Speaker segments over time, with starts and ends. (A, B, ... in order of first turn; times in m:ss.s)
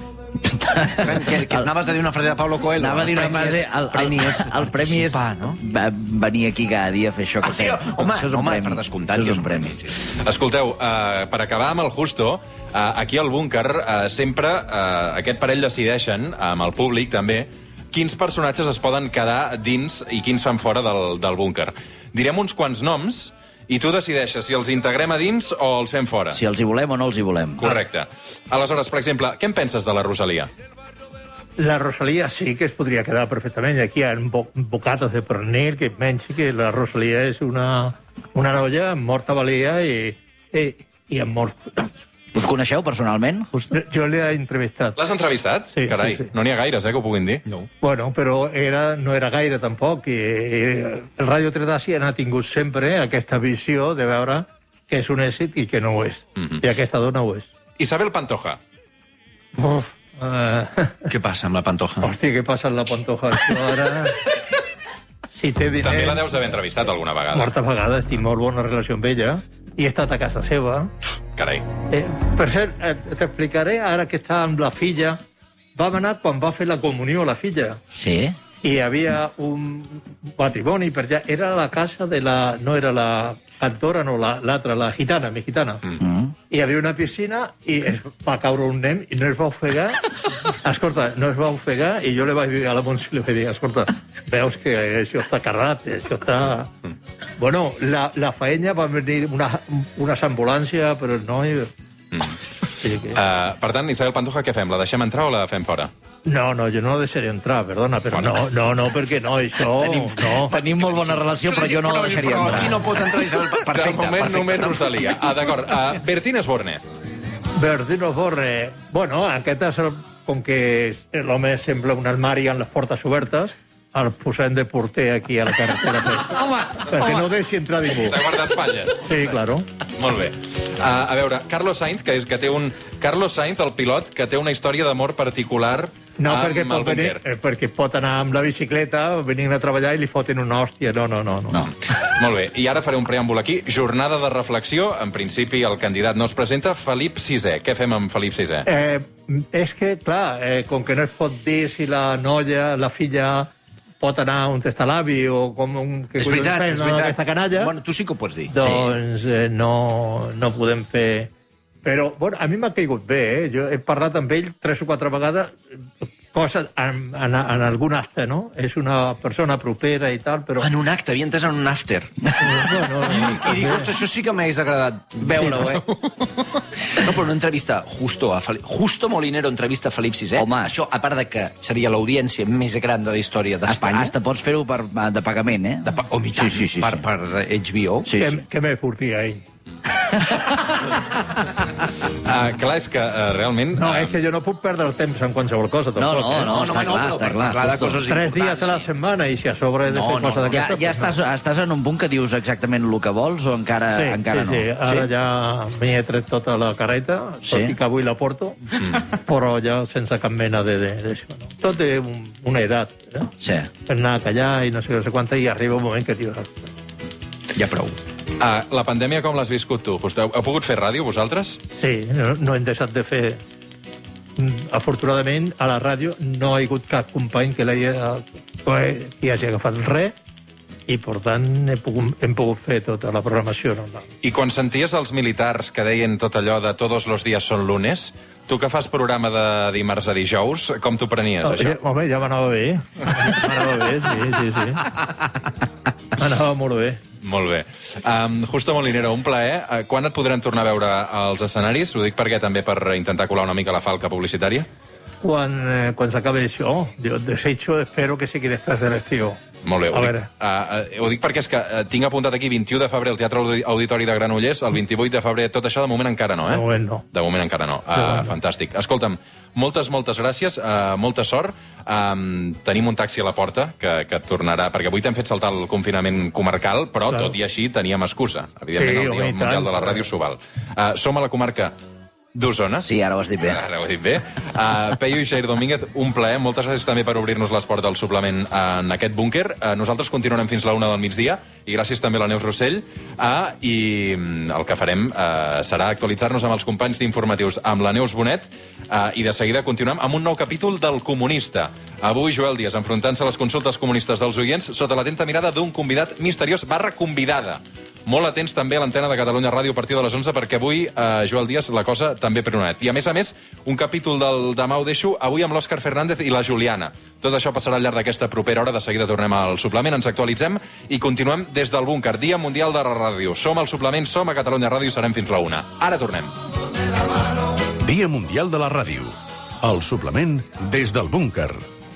0:00.4-0:01.6 A
0:01.0-0:05.6 B
0:02.8-0:09.7 A
0:07.4-0:10.0 B
0:10.1-0:26.4 C
0:26.3-0:27.7 A
0:27.6-0:30.5 C
0:31.6-0:42.0 D
0:42.3-0:43.8 A
0:43.7-0:45.0 D
0:45.0-0:47.4 C
0:45.7-0:46.3 D
0:47.8-0:57.5 D
0:57.8-0:58.6 C
0:59.6-1:01.1 D
1:01.1-1:02.2 B
1:02.0-1:04.2 D
1:05.3-1:06.6 D
1:05.8-1:07.5 C
1:07.3-1:10.9 D
1:11.4-1:11.7 C
1:11.9-1:15.2 D
1:15.8-1:17.8 D
1:17.9-1:18.4 A
1:18.6-1:25.9 D
1:26.0-1:26.3 A
1:26.5-1:36.7 D
1:37.4-1:41.7 D
1:42.8-1:43.2 D
1:43.1-1:45.9 C
1:46.2-1:50.5 D
1:48.1-1:48.4 C
1:49.8-1:52.8 A
1:50.7-1:55.2 B
1:53.6-1:56.9 C
1:57.6-2:08.3 D
2:06.3-2:07.2 A
2:08.0-2:09.4 C
2:09.0-2:09.6 D
2:10.0-2:17.2 C
2:16.2-2:21.6 D
2:22.2-2:28.7 C
2:28.6-2:37.7 D
2:36.2-2:38.5 B
2:38.5-2:41.3 D
2:38.6-2:38.9 A
2:41.8-2:45.6 D
2:46.3-2:50.7 D
2:50.6-2:55.8 B
2:52.4-2:53.9 D
2:55.2-2:55.8 A
2:56.9-3:04.1 B
3:00.4-3:00.7 A
3:03.6-3:07.0 A
3:05.8-3:08.1 B
3:08.0-3:08.4 A
3:08.2-3:09.4 D
3:12.2-3:14.2 C
3:13.7-3:16.6 D
3:16.0-3:18.0 A
3:16.4-3:18.9 B
3:18.0-3:21.2 D
3:19.8-3:20.6 B
3:20.5-3:25.1 A
3:23.9-3:28.6 D
3:27.4-3:27.7 A
3:29.1-3:33.3 D
3:33.4-3:33.7 A
3:33.9-3:36.7 D
3:37.5-3:38.0 B
3:38.4-3:41.6 C
3:41.8-3:43.4 D
3:44.4-3:50.1 D
3:50.9-3:54.1 D
3:54.2-4:01.8 C
4:01.4-4:04.8 D
4:06.2-4:07.0 D
4:07.2-4:14.7 C
4:15.2-4:19.4 D
4:19.6-4:41.7 C
4:19.9-4:20.3 D
4:26.5-4:27.0 D
4:27.9-4:28.3 D
4:37.1-4:37.4 D
4:38.7-4:40.0 D
4:42.3-4:42.9 C
4:42.8-4:43.6 A
4:43.4-5:26.3 C
5:27.8-5:31.6 E